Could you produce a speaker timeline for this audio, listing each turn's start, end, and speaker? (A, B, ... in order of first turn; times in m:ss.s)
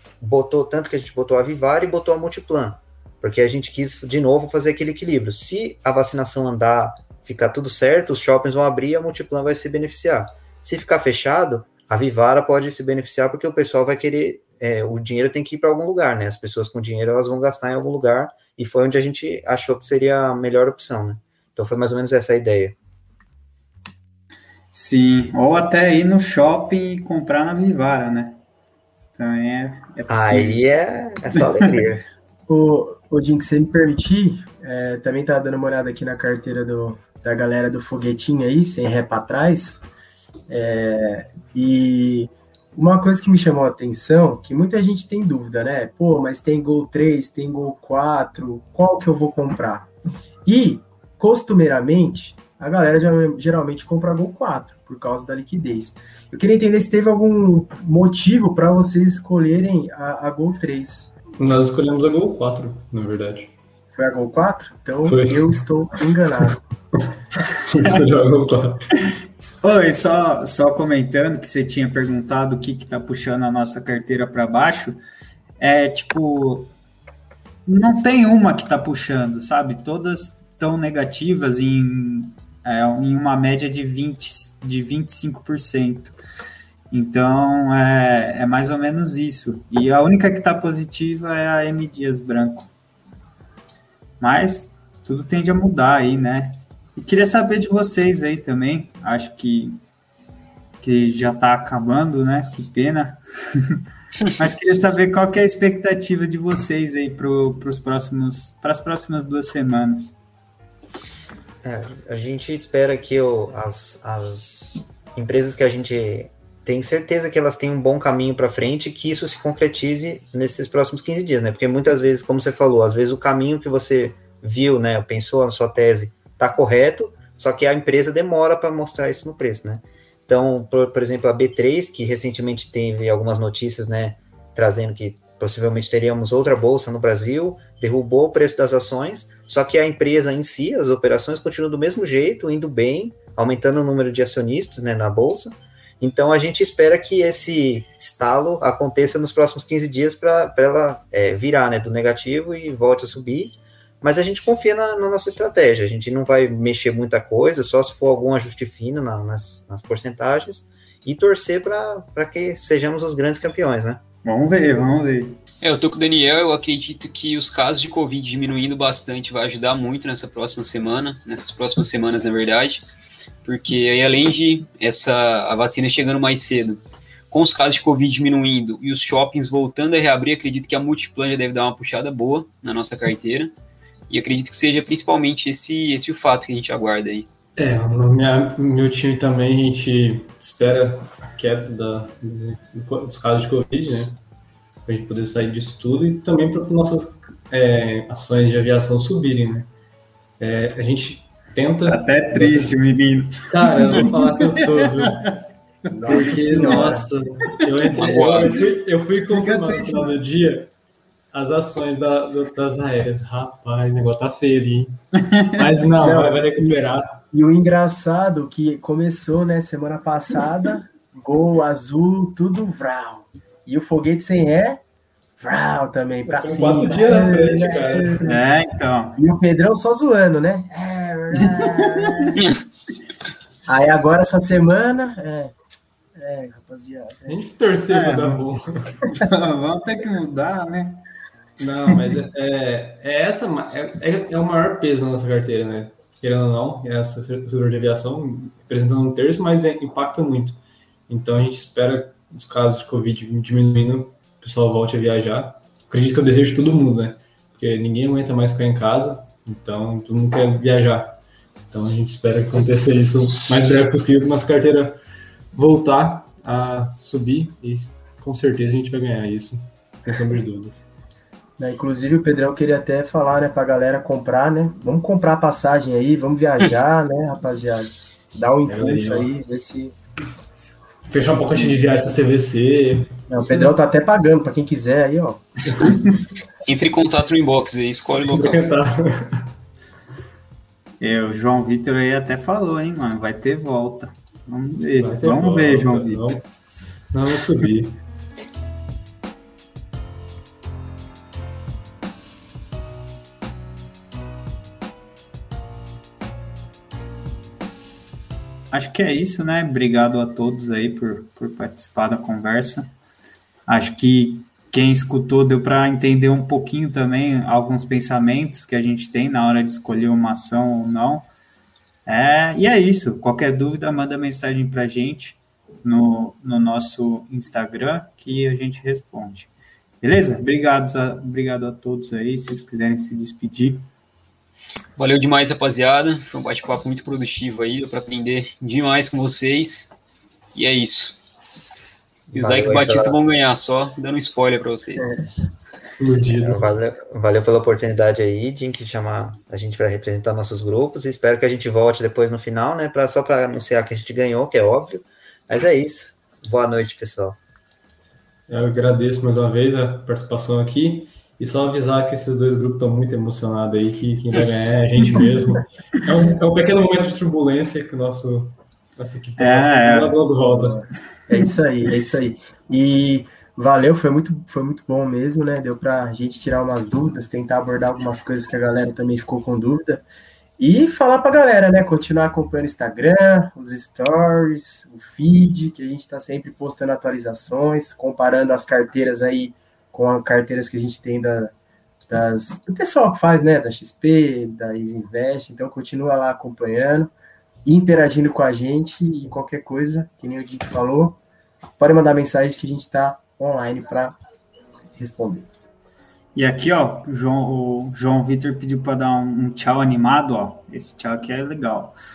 0:00.2-0:22.8 A
0:24.7-0:28.4 B
0:29.1-0:30.6 B
0:30.1-0:32.0 A
0:32.5-0:39.8 C
0:40.5-0:49.9 C
0:50.4-1:01.1 C
1:01.4-1:03.5 D
1:04.0-1:06.6 C
1:05.0-1:05.6 D
1:07.5-1:09.0 D
1:09.6-1:15.0 B
1:15.6-1:16.7 B
1:17.6-1:26.2 B
1:26.9-1:32.7 B
1:34.2-1:39.8 B
1:40.8-1:43.8 B
1:44.4-1:50.2 B
1:51.6-2:44.0 A
2:44.2-2:45.4 B
2:45.6-2:52.8 E
2:53.4-3:03.5 E
3:04.1-3:07.3 E
3:07.6-3:14.2 D
3:14.8-3:19.7 D
3:20.4-3:22.8 D
3:21.8-3:25.4 B
3:23.5-3:25.4 D
3:25.9-3:27.1 C
3:26.0-3:26.9 B
3:26.0-3:30.7 D
3:27.6-3:28.4 B
3:27.9-3:28.5 E
3:29.2-3:30.1 B
3:31.3-3:37.2 D
3:35.2-3:35.6 B
3:36.0-3:36.7 C
3:37.3-3:44.8 C
3:45.4-3:48.4 C
3:46.2-3:48.4 D
3:48.2-3:49.2 B
3:49.2-3:52.4 C
3:51.4-3:52.4 B
3:53.7-3:55.5 C
3:56.1-3:57.4 C
3:57.3-3:59.2 D
3:57.9-3:58.5 B
3:59.1-4:01.0 B
4:01.6-4:21.2 D
4:21.7-4:25.0 D
4:25.5-4:30.9 D
4:31.6-4:39.9 C
4:38.6-4:39.3 D
4:40.6-4:43.7 D
4:43.3-4:45.4 C
4:45.8-4:46.2 B
4:46.6-4:48.6 E
4:48.3-4:49.5 D
4:51.0-4:56.4 B
4:55.0-4:56.4 D
4:57.1-4:58.0 D
5:08.7-5:12.9 B
5:13.7-5:21.3 B
5:22.0-5:29.5 B
5:30.0-5:33.8 B
5:35.0-5:39.9 E
5:40.5-5:41.2 E
5:42.3-5:45.1 E
5:42.3-5:43.2 A
5:46.0-5:46.7 D
5:46.4-5:57.4 A
5:58.5-6:10.8 D
6:09.4-6:10.2 B
6:10.4-6:20.0 C
6:20.6-6:31.5 C
6:32.1-6:37.1 C
6:37.6-6:41.2 C
6:41.8-6:44.2 C
6:44.9-6:45.5 C
6:46.3-6:52.0 B